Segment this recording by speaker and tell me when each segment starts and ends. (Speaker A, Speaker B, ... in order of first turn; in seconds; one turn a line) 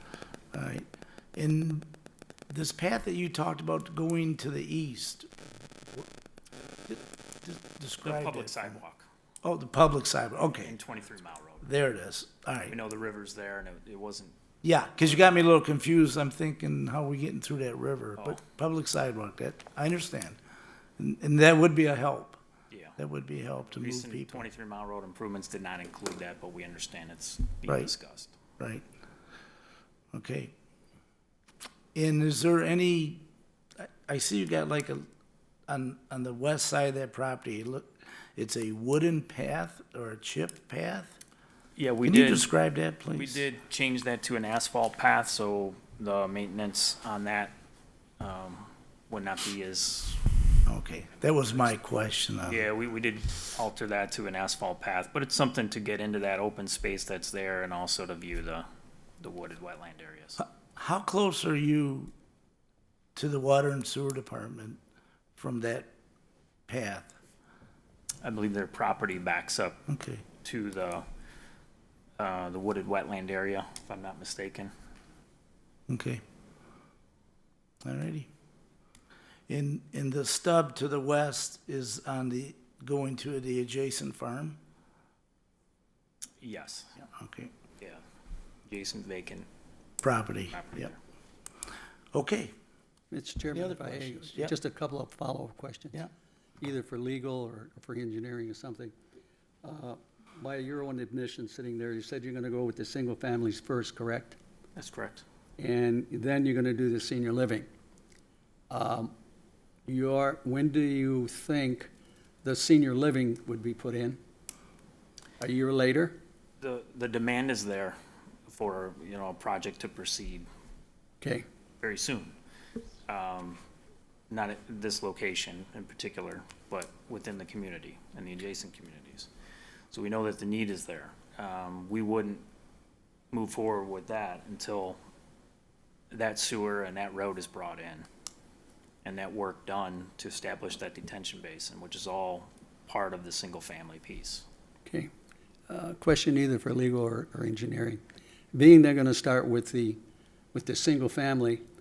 Speaker A: 0.5-1.9
Speaker A: 2.5-5.3
Speaker A: 6.9-8.8
Speaker B: 8.0-9.1
Speaker A: 9.4-10.8
Speaker B: 10.6-11.7
Speaker A: 11.6-12.8
Speaker B: 12.6-14.4
Speaker A: 14.6-20.4
Speaker A: 21.0-22.4
Speaker B: 22.7-23.0
Speaker A: 23.0-24.5
Speaker B: 23.7-28.4
Speaker A: 27.7-27.9
Speaker A: 28.6-28.9
Speaker A: 30.1-30.5
Speaker A: 31.9-33.2
Speaker A: 33.8-35.0
Speaker A: 35.7-41.2
Speaker B: 41.8-42.5
Speaker A: 42.0-43.4
Speaker B: 43.1-47.5
Speaker B: 48.2-50.2
Speaker A: 50.7-52.6
Speaker B: 52.5-58.7
Speaker B: 59.2-60.4
Speaker A: 60.4-62.1
Speaker A: 63.1-64.8
Speaker A: 65.4-65.9
Speaker A: 66.7-67.2
Speaker B: 68.2-69.8
Speaker A: 69.9-70.2
Speaker B: 70.4-71.1
Speaker B: 72.2-74.7
Speaker A: 75.9-76.2
Speaker A: 77.8-78.3
Speaker A: 79.5-84.6
Speaker B: 86.4-87.0
Speaker A: 87.2-87.5
Speaker B: 88.7-89.5
Speaker A: 90.0-90.9
Speaker B: 90.5-91.0
Speaker A: 92.1-92.5
Speaker C: 93.1-96.1
Speaker A: 93.5-94.5
Speaker C: 96.6-98.9
Speaker C: 99.6-104.4
Speaker B: 104.8-105.2
Speaker C: 105.6-107.7
Speaker C: 108.7-109.1
Speaker C: 109.9-111.9
Speaker C: 112.4-114.2
Speaker C: 115.4-116.2
Speaker B: 116.6-120.5
Speaker B: 121.8-122.4
Speaker B: 123.1-123.6
Speaker B: 124.3-129.3
Speaker B: 129.9-132.4
Speaker B: 133.3-135.0
Speaker B: 136.1-138.1
Speaker B: 139.0-144.5
Speaker C: 145.7-148.0
Speaker C: 148.5-150.0
Speaker C: 150.5-151.6